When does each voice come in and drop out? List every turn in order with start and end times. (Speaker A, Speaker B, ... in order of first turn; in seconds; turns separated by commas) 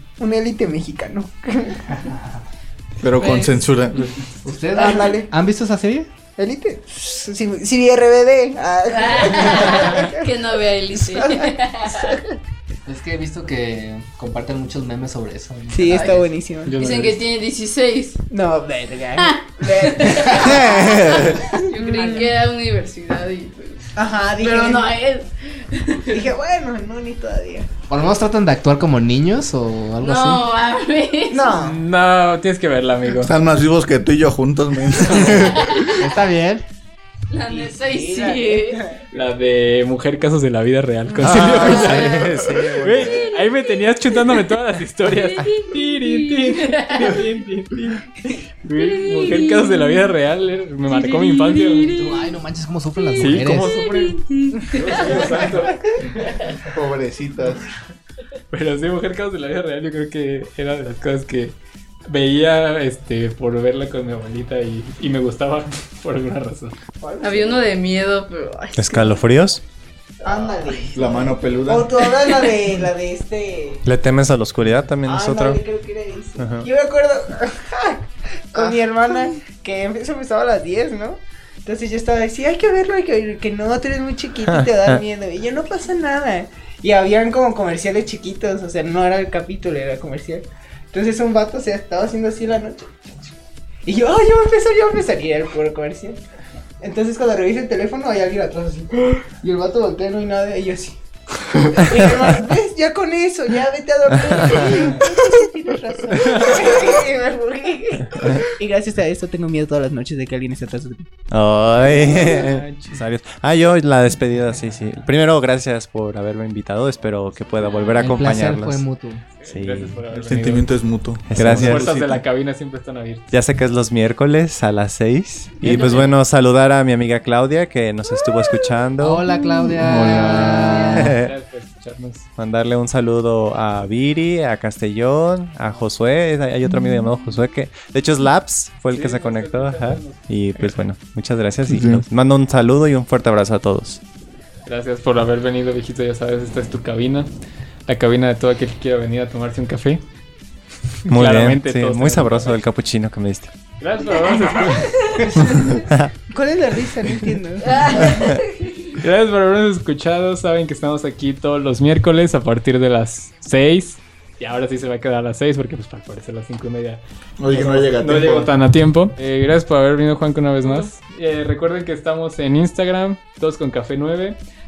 Speaker A: 0.2-2.0, Speaker B: 2.0-2.4, Speaker C: 3.0-4.0, Speaker D: 3.2-3.7, Speaker E: 3.9-4.2, Speaker B: 4.4-6.1, Speaker A: 4.8-5.3, Speaker A: 6.4-10.3, Speaker D: 8.9-12.2, Speaker A: 10.9-12.4, Speaker B: 12.9-16.2, Speaker A: 15.7-16.8, Speaker D: 15.9-18.2, Speaker E: 16.6-17.2, Speaker A: 18.3-22.3, Speaker D: 19.2-26.3, Speaker C: 20.4-21.6, Speaker A: 24.0-24.9, Speaker A: 26.1-27.7, Speaker B: 27.9-30.4, Speaker D: 30.0-31.6, Speaker A: 31.3-31.8, Speaker E: 31.5-33.3, Speaker C: 33.1-35.7, Speaker B: 35.1-36.6, Speaker D: 35.2-36.1, Speaker D: 37.3-38.8, Speaker A: 37.5-39.0, Speaker E: 39.1-51.9, Speaker F: 41.2-43.3, Speaker D: 41.3-42.5, Speaker A: 41.4-41.8, Speaker D: 43.0-44.5, Speaker D: 45.0-47.3, Speaker D: 48.8-50.1, Speaker D: 50.9-52.4, Speaker B: 51.9-53.8, Speaker D: 53.0-55.5, Speaker E: 53.2-55.9, Speaker A: 54.9-56.0, Speaker C: 56.5-57.7, Speaker E: 58.5-66.8, Speaker A: 67.0-67.6, Speaker D: 67.2-69.2, Speaker F: 68.8-69.6, Speaker A: 70.2-73.8, Speaker C: 70.3-72.0, Speaker F: 73.8-75.6, Speaker A: 75.0-93.3, Speaker F: 76.4-76.7, Speaker F: 84.4-85.0, Speaker A: 93.8-96.2, Speaker A: 96.8-101.0, Speaker A: 101.7-111.1, Speaker F: 101.8-102.3, Speaker F: 104.2-104.9, Speaker E: 106.1-106.6, Speaker F: 111.3-118.8, Speaker E: 111.8-113.0, Speaker E: 117.0-118.3, Speaker B: 118.0-119.2, Speaker E: 119.4-120.7, Speaker F: 119.5-120.0, Speaker C: 120.1-122.2, Speaker E: 121.2-123.3, Speaker F: 121.3-121.9, Speaker F: 123.3-131.3, Speaker E: 125.6-126.2, Speaker B: 129.0-131.2, Speaker D: 130.4-131.0, Speaker E: 131.1-132.3, Speaker F: 132.4-144.0, Speaker E: 138.9-140.8, Speaker C: 141.7-142.1, Speaker E: 144.7-147.3, Speaker E: 147.9-150.0, Speaker E: 151.1-152.6, Speaker F: 151.1-153.5, Speaker E: 153.8-155.2, Speaker D: 155.2-155.4, Speaker A: 155.2-155.8, Speaker F: 155.4-156.1, Speaker A: 156.3-158.2, Speaker D: 157.7-158.9, Speaker F: 158.0-158.4, Speaker E: 158.9-174.4, Speaker C: 167.4-168.5